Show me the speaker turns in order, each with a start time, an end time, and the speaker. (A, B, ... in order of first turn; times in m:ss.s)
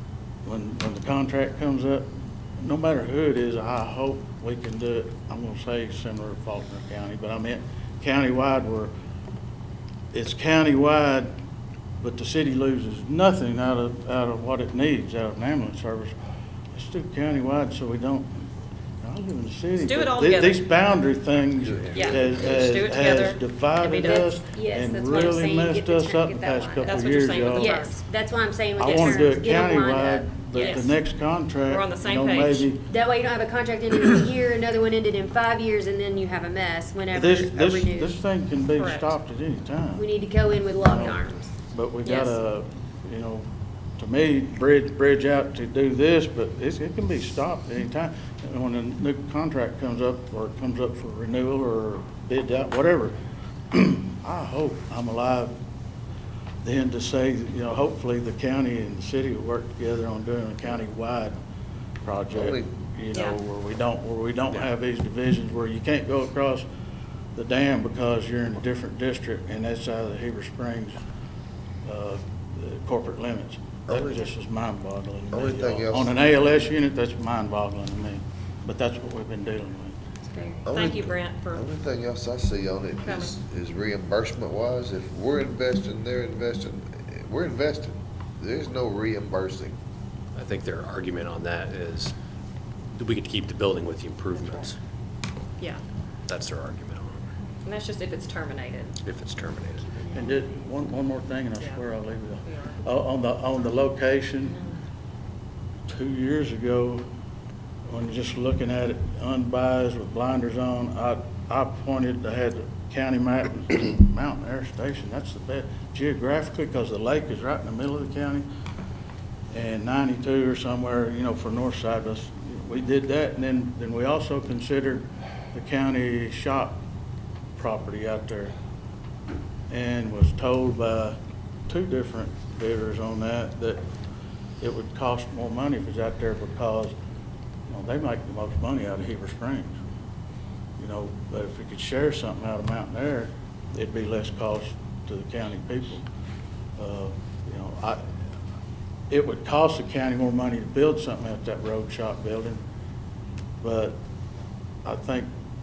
0:00.4-0:08.9 A
0:10.1-0:11.3 A
0:12.0-0:16.2 A
0:16.7-0:18.4 A
0:19.0-0:27.7 A
0:19.8-0:20.6 B
0:21.6-0:22.7 C
0:21.9-0:25.4 B
0:23.9-0:30.9 D
0:26.8-0:28.0 B
0:28.8-0:32.9 A
0:28.8-0:29.4 B
0:30.5-0:30.9 B
0:31.6-0:32.7 B
0:32.9-0:38.2 D
0:37.1-0:40.1 A
0:38.7-0:39.2 B
0:40.0-0:41.5 D
0:40.8-0:41.2 A
0:41.7-0:43.4 A
0:42.0-0:42.4 B
0:44.0-0:53.2 A
0:53.7-0:55.6 A
0:56.6-1:01.4 A
1:02.0-1:06.7 A
1:02.3-1:02.7 C
1:07.3-1:11.0 A
1:11.8-1:20.0 A
1:13.9-1:14.3 C
1:15.3-1:16.1 C
1:20.2-1:20.7 D
1:20.6-1:29.7 C
1:20.7-1:21.7 B
1:23.0-1:23.3 B
1:30.3-1:32.1 E
1:32.9-1:34.8 E
1:36.3-1:37.3 E
1:37.6-1:39.0 B
1:39.0-1:39.8 E
1:40.0-1:40.4 D
1:40.1-1:44.6 A
1:41.6-1:41.9 B
1:42.4-1:42.8 B
1:45.9-1:47.0 A
1:47.9-1:58.5 A
1:59.5-2:06.8 A
2:07.5-2:08.5 A
2:09.7-2:13.8 A
2:14.6-2:17.0 A
2:17.7-2:19.8 A
2:20.8-2:26.0 A
2:26.8-2:28.0 A
2:29.1-2:32.6 A
2:33.6-2:34.0 A
2:34.8-2:35.3 A